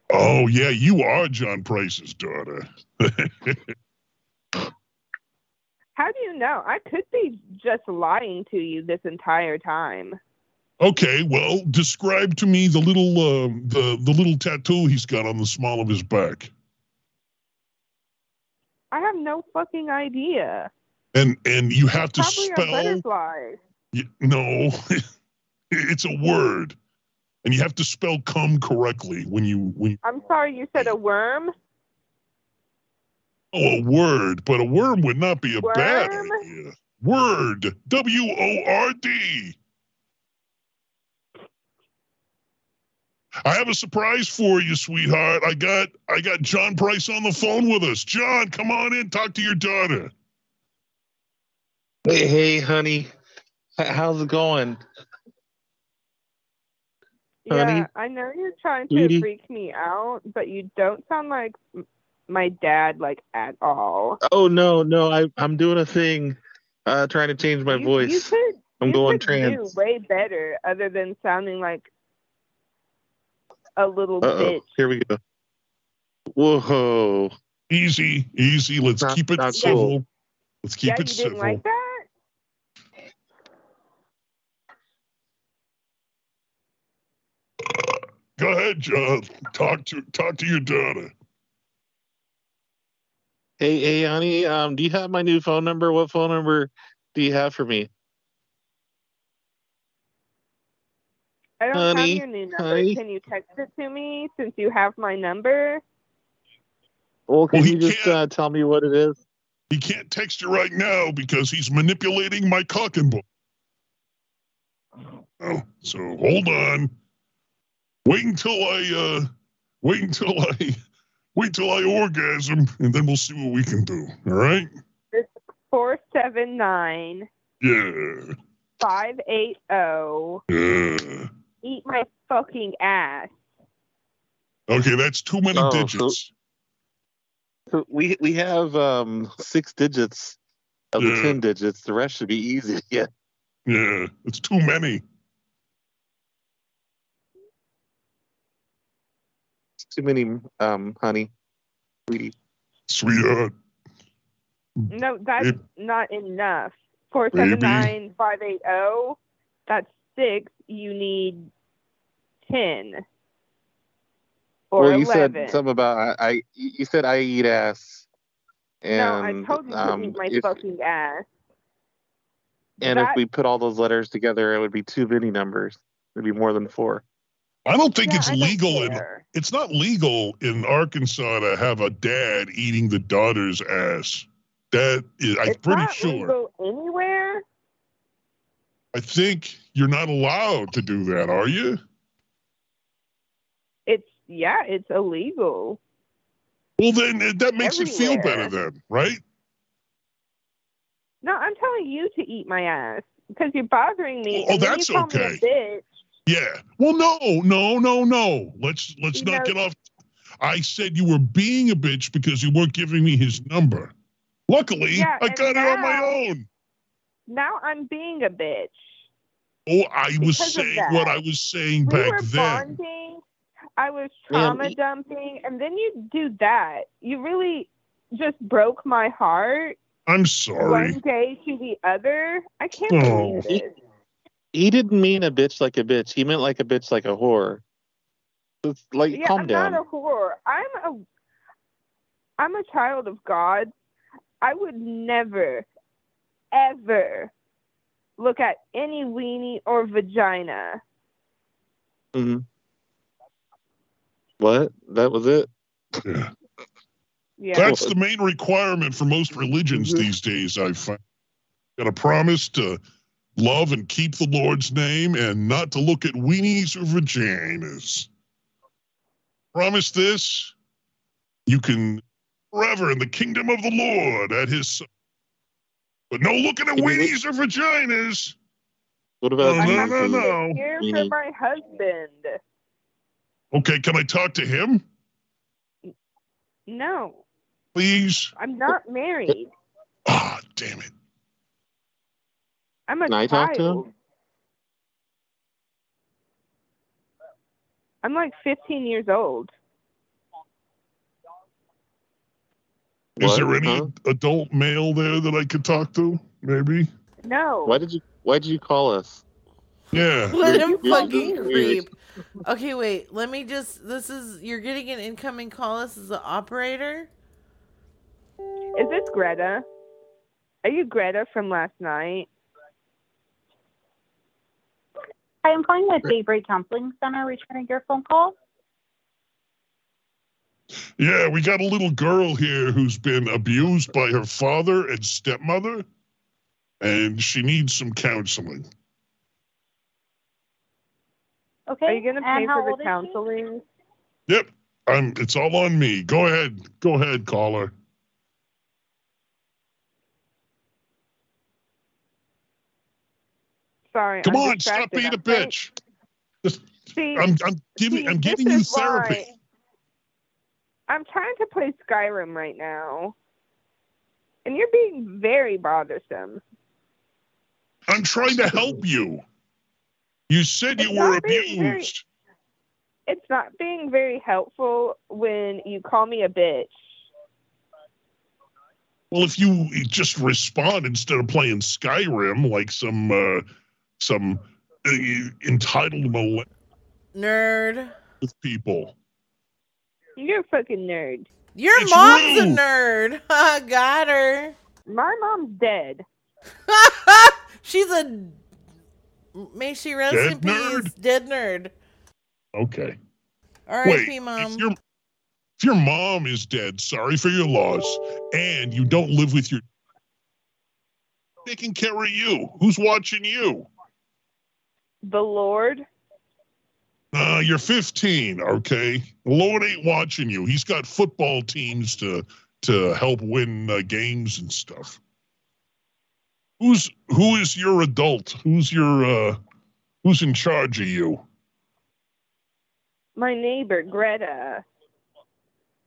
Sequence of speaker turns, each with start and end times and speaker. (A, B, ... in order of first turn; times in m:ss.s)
0:00.1-0:03.6 A
0:06.0-0:10.2 B
0:10.8-0:16.5 A
0:18.9-0:20.7 B
0:21.2-0:23.0 A
0:22.2-0:23.6 B
0:23.9-0:24.9 A
0:25.7-0:26.8 A
0:27.4-0:30.0 A
0:30.0-0:31.5 B
0:33.5-0:39.6 A
0:35.6-0:36.4 B
0:43.5-0:50.1 A
0:52.1-0:53.1 C
0:53.8-0:54.8 C
0:57.5-1:01.6 B
0:57.5-0:57.9 C
0:58.9-0:59.2 C
1:02.3-1:04.2 B
1:04.2-1:09.7 C
1:07.7-1:11.9 B
1:13.8-1:14.8 B
1:14.2-1:15.2 C
1:16.3-1:17.3 C
1:17.7-1:20.0 A
1:19.0-1:20.0 C
1:20.8-1:21.6 A
1:20.8-1:22.0 B
1:27.7-1:31.1 A
1:33.6-1:37.9 C
1:41.6-1:45.8 B
1:41.8-1:43.0 C
1:47.3-1:49.2 C
1:47.5-1:48.2 A
1:49.7-1:53.2 A
1:55.4-1:56.9 A
1:58.1-1:59.3 A
1:59.8-2:00.8 A
2:01.4-2:04.7 A
2:05.1-2:07.3 B
2:07.6-2:08.4 A
2:08.8-2:10.4 B
2:10.5-2:11.3 A
2:11.6-2:13.3 B
2:14.7-2:16.3 A
2:15.5-2:16.2 C
2:17.7-2:20.4 C
2:20.9-2:23.1 C
2:21.0-2:21.4 A
2:23.7-2:25.0 A
2:29.8-2:31.3 C
2:32.1-2:32.3 C
2:32.9-2:33.5 A
2:34.9-2:39.2 B
2:37.4-2:37.9 A
2:39.7-2:41.5 B
2:42.4-2:43.0 B
2:44.7-2:45.6 B
2:44.8-2:48.1 C
2:48.8-2:50.6 C
2:48.9-2:51.2 B
2:52.8-2:53.2 B
2:52.8-2:57.0 C
2:57.7-3:06.3 A
2:58.0-2:59.3 B
3:05.5-3:07.4 B
3:08.9-3:11.8 A
3:13.9-3:15.8 B
3:16.8-3:19.2 A
3:17.6-3:18.5 B
3:21.2-3:25.8 B
3:24.3-3:25.4 A
3:26.3-3:29.8 A
3:29.1-3:29.5 B
3:30.4-3:33.9 A
3:34.5-3:36.4 A
3:34.9-3:36.1 B
3:37.3-3:38.8 B
3:39.7-3:42.7 A
3:40.2-3:41.2 B
3:41.8-3:43.2 B
3:43.8-3:49.8 B
3:44.3-3:44.7 C
3:50.1-3:51.0 A
3:50.6-3:53.7 B
3:52.9-3:53.5 A
3:54.5-3:57.6 C
3:58.6-3:59.8 C
3:59.1-4:01.0 B
4:02.4-4:03.7 B
4:04.4-4:05.7 B
4:06.5-4:07.3 B
4:08.2-4:10.8 B
4:12.2-4:12.4 C
4:14.4-4:15.5 C
4:16.0-4:16.3 A
4:17.4-4:17.8 B
4:17.6-4:21.0 A
4:19.8-4:20.0 C
4:21.8-4:22.8 A
4:23.4-4:28.1 A
4:29.5-4:30.5 A
4:31.5-4:32.0 A
4:32.5-4:34.9 A
4:36.1-4:38.4 A
4:36.8-4:37.1 C
4:39.2-4:41.1 C
4:39.4-4:40.6 A
4:39.6-4:42.4 B
4:43.5-4:44.8 A
4:46.7-4:47.2 B
4:47.8-4:48.3 A
4:48.4-4:49.5 B
4:50.1-4:50.9 A
4:52.9-4:53.9 B
4:53.1-4:53.8 C
4:58.0-4:59.5 B
5:03.2-5:03.9 C
5:03.2-5:06.9 A
5:07.2-5:07.8 B
5:07.7-5:09.2 C
5:09.9-5:10.5 A
5:10.3-5:11.9 D
5:10.4-5:11.8 C
5:12.4-5:17.1 D
5:18.8-5:19.6 B
5:20.6-5:22.3 B
5:25.4-5:28.4 E
5:31.0-5:35.8 A
5:36.8-5:38.7 A
5:41.7-5:43.2 E
5:41.9-5:43.6 B
5:44.3-5:47.7 A
5:53.9-5:55.5 B
5:54.2-5:55.7 A
5:56.4-5:59.3 A
5:56.9-5:57.3 B
5:57.8-5:59.3 B
6:00.9-6:03.1 B
6:04.5-6:06.4 B
6:07.9-6:09.2 A
6:10.3-6:12.0 A
6:10.8-6:11.9 B
6:13.1-6:16.8 B
6:19.1-6:23.4 A
6:24.0-6:26.5 A
6:27.2-6:28.0 D
6:28.2-6:28.9 A
6:30.2-6:31.3 B
6:31.6-6:34.6 D
6:31.7-6:32.6 A
6:34.9-6:36.0 B
6:36.7-6:38.4 D
6:39.4-6:41.7 D
6:40.1-6:40.9 A
6:42.6-6:43.0 A
6:43.7-6:44.7 D
6:43.8-6:44.8 A
6:45.6-6:49.6 A
6:51.5-6:53.7 A
6:55.1-6:55.8 B
6:57.1-7:05.0 A
7:06.6-7:09.4 A
7:10.0-7:11.2 A
7:13.2-7:14.6 B